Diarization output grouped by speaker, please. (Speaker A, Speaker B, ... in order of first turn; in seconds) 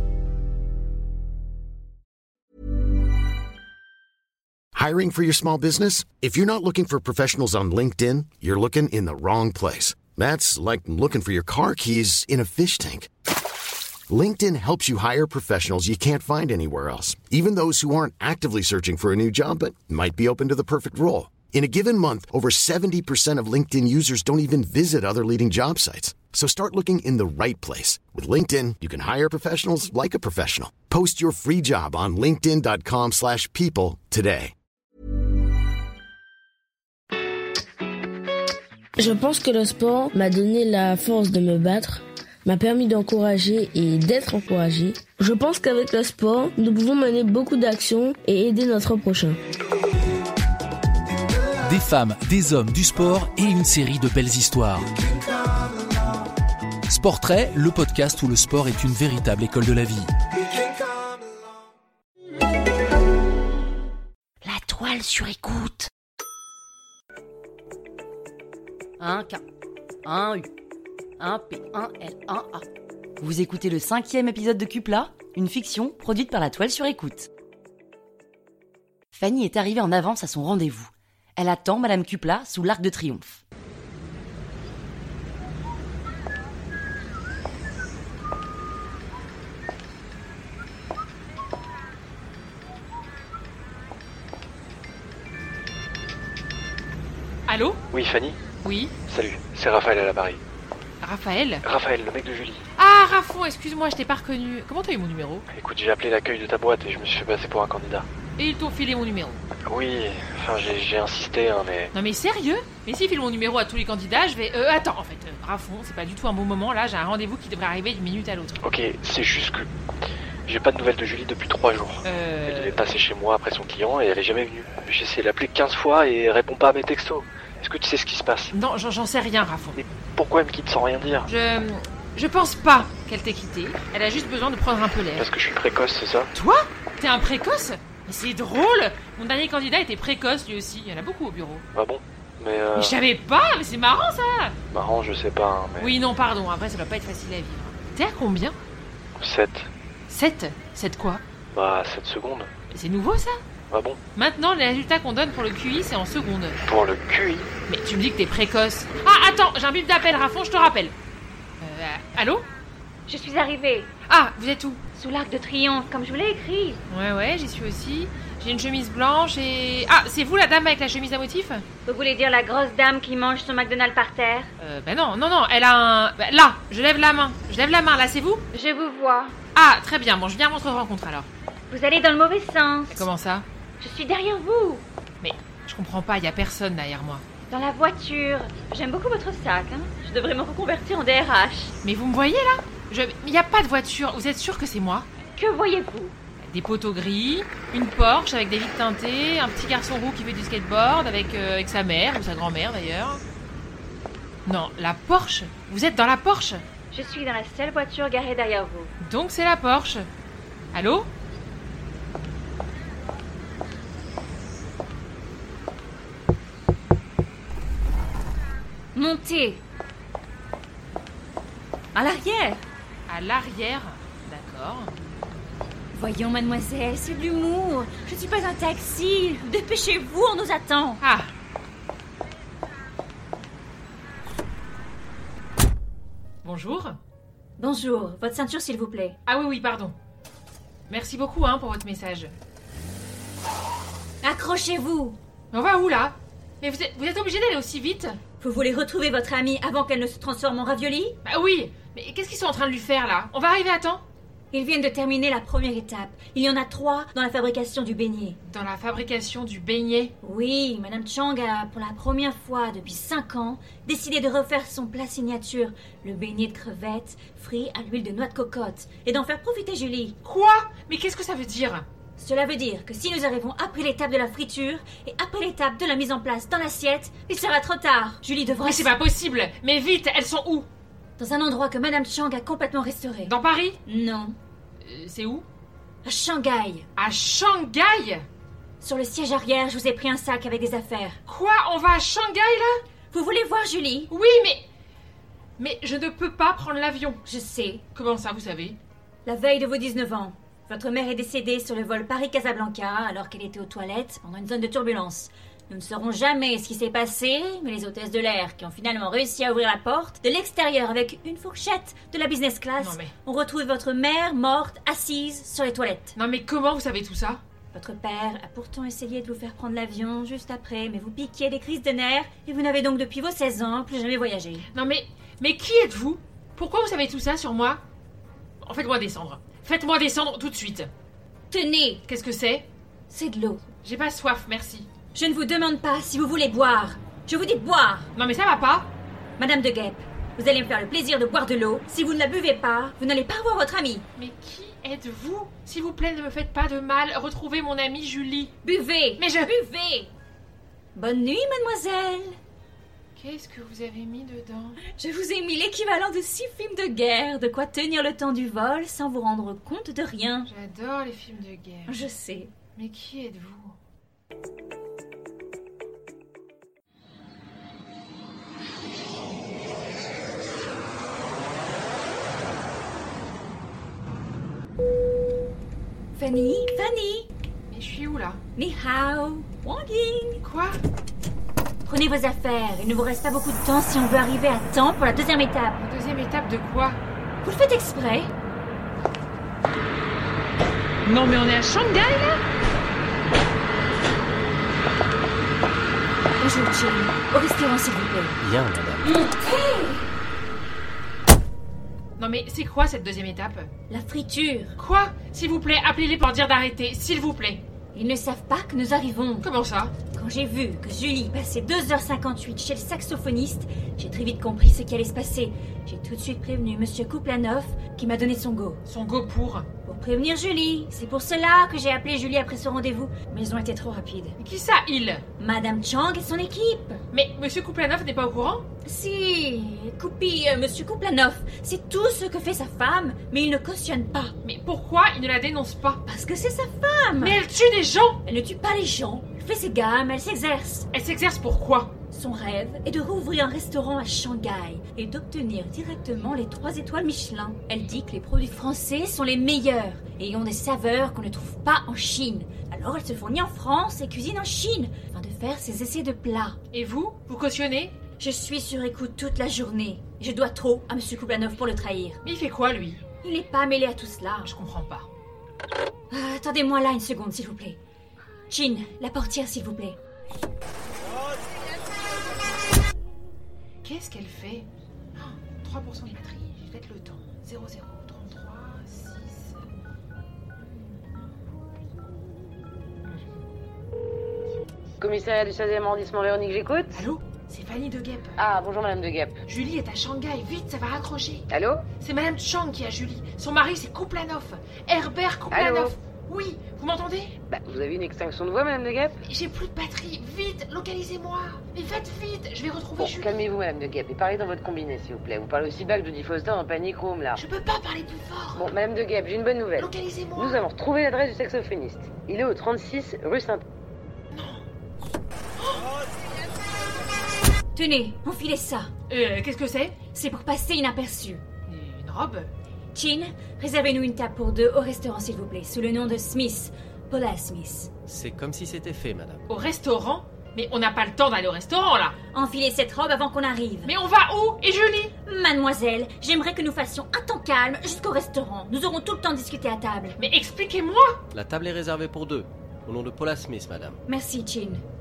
Speaker A: 4.7-13.1, 14.1-34.5
Speaker B: 39.0-49.4
Speaker C: 51.7-54.8, 56.9-60.0
Speaker D: 64.4-65.9, 69.0-69.4, 70.0-70.5, 71.2-72.6, 73.2-77.3, 79.1-83.4
Speaker E: 97.5-97.8, 98.6-98.9, 101.0-101.7, 102.8-105.5, 108.4-109.4, 111.9-118.6, 122.0-122.9, 128.5-129.8, 131.2-135.3, 136.3-141.6, 142.7-144.6, 145.8-148.6, 150.1-151.2, 152.7-153.4, 154.1-156.6, 157.7-160.9, 161.6-162.4, 164.1-164.8, 166.9-171.6, 174.6-178.4, 179.5-181.3, 182.9-183.4, 185.2-187.2, 191.8-195.1, 196.4-203.2, 204.4-206.6, 209.0-210.1, 210.7-211.1, 223.1-224.9, 231.0-231.3, 236.4-237.0, 239.2-239.9, 240.9-242.3, 245.5-248.2, 251.2-254.0, 258.4-260.1, 270.2-271.9, 278.6-280.7, 283.2-283.8, 284.8-285.4, 287.0-288.2, 291.3-292.8, 294.1-294.6, 295.6-297.2, 297.9-298.8, 312.8-313.1, 316.1-317.4, 324.7-327.8, 328.6-330.9, 332.1-332.7, 333.8-334.9, 338.1-338.9, 344.2-348.5, 349.2-349.6, 353.1-354.8, 360.5-362.0, 362.8-363.8, 377.7-378.4, 380.4-380.8, 385.8-387.0, 391.1-392.4, 402.2-403.7, 404.8-407.6, 409.4-409.9, 418.9-419.7, 424.4-425.2, 427.1-428.6, 434.4-436.0, 437.2-438.2, 440.9-441.9, 456.7-457.9, 462.2-463.0, 464.4-465.1, 473.8-479.6, 480.8-481.2, 486.9-488.4, 489.5-491.5, 492.0-497.3, 499.2-503.4, 507.4-508.7, 509.8-510.6, 514.3-514.6, 515.6-515.9, 519.1-520.0, 521.7-522.5, 529.5-532.1, 533.9-535.1, 540.2-541.2
Speaker F: 97.9-98.4, 99.1-100.4, 101.6-102.6, 105.5-108.1, 109.6-111.9, 118.6-119.7, 120.5-128.5, 130.1-131.3, 135.2-136.3, 141.7-142.9, 144.7-145.9, 149.2-149.7, 151.5-152.5, 153.7-154.0, 156.7-157.5
Speaker G: 163.1-163.9, 164.9-166.8, 171.8-174.5, 178.5-179.3, 181.7-183.1, 183.8-184.8, 187.5-191.7, 195.3-196.1, 206.9-208.9, 218.9-219.6, 221.9-222.6, 225.9-231.0, 237.6-239.2, 244.2-245.2, 248.4-251.2, 254.5-258.4, 260.2-270.2, 272.2-278.9, 281.2-283.3, 283.8-284.4, 286.1-286.9, 288.8-291.2, 293.1-294.1, 297.2-297.8, 299.2-316.1, 317.7-324.6, 331.5-332.0, 333.1-333.6, 335.1-338.1, 339.4-344.1, 348.6-350.1, 350.9-352.4, 354.9-360.5, 361.9-362.5, 376.1-377.3, 378.6-380.4, 381.8-385.8, 387.4-388.3, 396.4-398.4, 399.0-400.1, 403.9-404.7, 407.9-409.5, 410.1-418.8, 419.9-424.4, 425.4-427.0, 428.8-434.3, 436.1-437.4, 438.2-440.9, 442.1-456.6, 458.2-462.2, 463.2-464.5, 466.1-467.8, 468.5-470.0, 517.7-518.9, 520.1-521.4, 522.9-527.9, 532.3-533.9, 535.2-540.2, 544.1-544.8
Speaker H: 398.4-399.2, 528.1-529.4, 541.3-544.0
Speaker I: 485.0-487.0, 488.4-489.4, 491.5-491.8, 495.5-495.9, 497.5-499.2, 503.0-507.4, 508.5-513.6